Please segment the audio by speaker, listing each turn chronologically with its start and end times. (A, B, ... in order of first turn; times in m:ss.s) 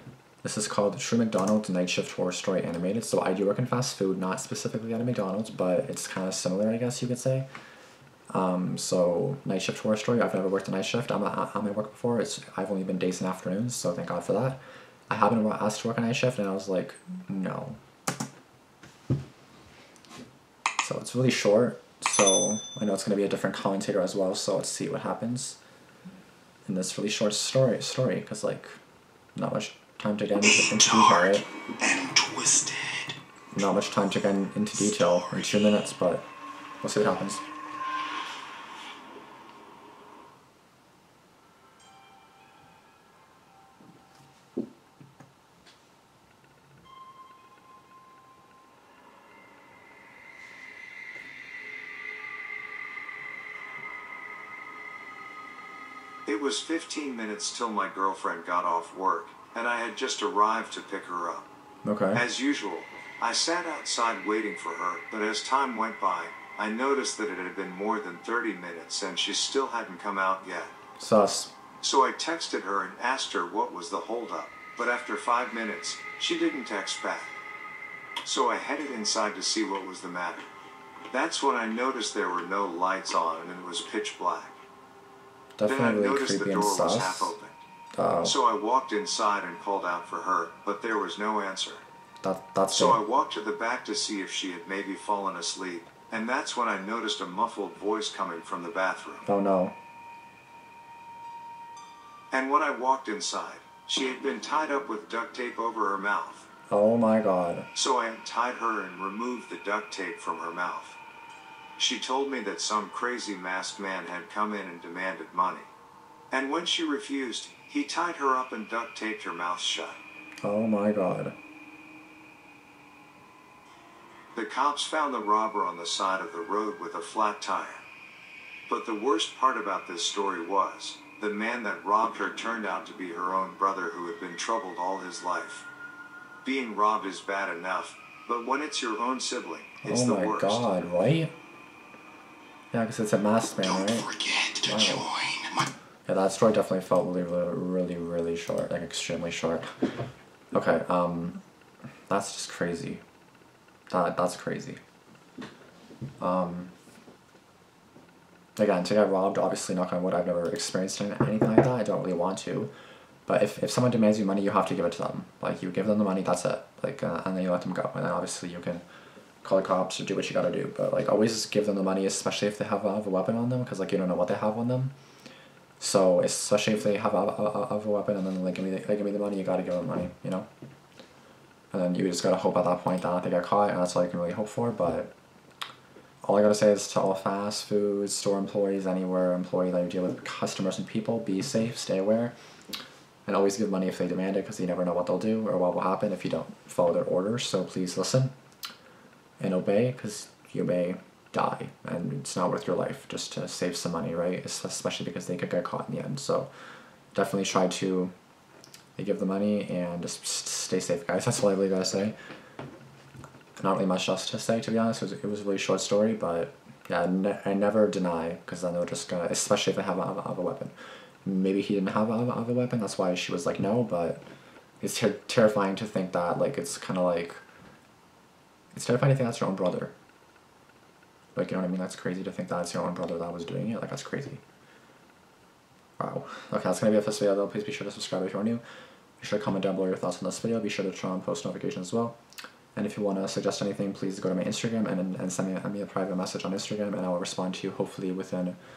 0:00.4-0:07.5 A
0:08.3-0:17.8 A
0:20.8-0:25.6 A
0:26.7-0:28.8 A
0:29.3-0:31.4 A
0:30.5-0:33.2 B
0:33.5-0:36.3 A
0:34.9-0:35.5 B
0:36.8-0:37.4 A
0:56.2-1:01.5 C
1:01.8-1:02.2 A
1:02.1-1:10.7 C
1:11.0-1:11.5 A
1:11.8-1:17.3 C
1:18.2-1:20.5 C
1:21.1-1:24.6 C
1:25.6-1:27.3 A
1:25.6-1:27.6 C
1:27.9-1:28.4 A
1:28.2-1:31.8 C
1:32.2-1:33.0 A
1:32.7-1:39.2 C
1:39.2-1:39.7 A
1:42.3-1:46.4 C
1:46.7-1:47.7 A
1:47.7-1:51.0 C
1:51.8-1:55.7 C
1:56.3-2:00.0 C
2:00.4-2:01.4 A
2:04.3-2:07.8 C
2:08.7-2:15.7 C
2:16.4-2:20.7 C
2:19.8-2:21.3 A
2:22.7-2:25.1 A
2:23.6-2:25.7 B
2:26.1-2:29.7 A
2:30.5-2:31.4 A
2:32.1-2:33.0 A
2:33.9-2:34.8 A
2:36.2-2:36.7 A
2:38.6-2:42.7 A
2:43.3-2:48.8 A
2:49.4-2:54.9 A
2:55.8-3:00.5 A
3:01.7-3:05.1 A
3:06.2-3:12.3 A
3:13.2-3:18.3 A
3:19.4-3:26.5 A
3:27.1-3:28.1 A
3:29.0-3:32.1 A
3:33.6-3:44.2 A
3:44.8-3:47.4 A
3:48.7-3:49.9 A
3:51.3-3:54.4 A
3:56.0-3:58.6 A
3:59.2-4:02.2 A
4:02.7-4:08.6 A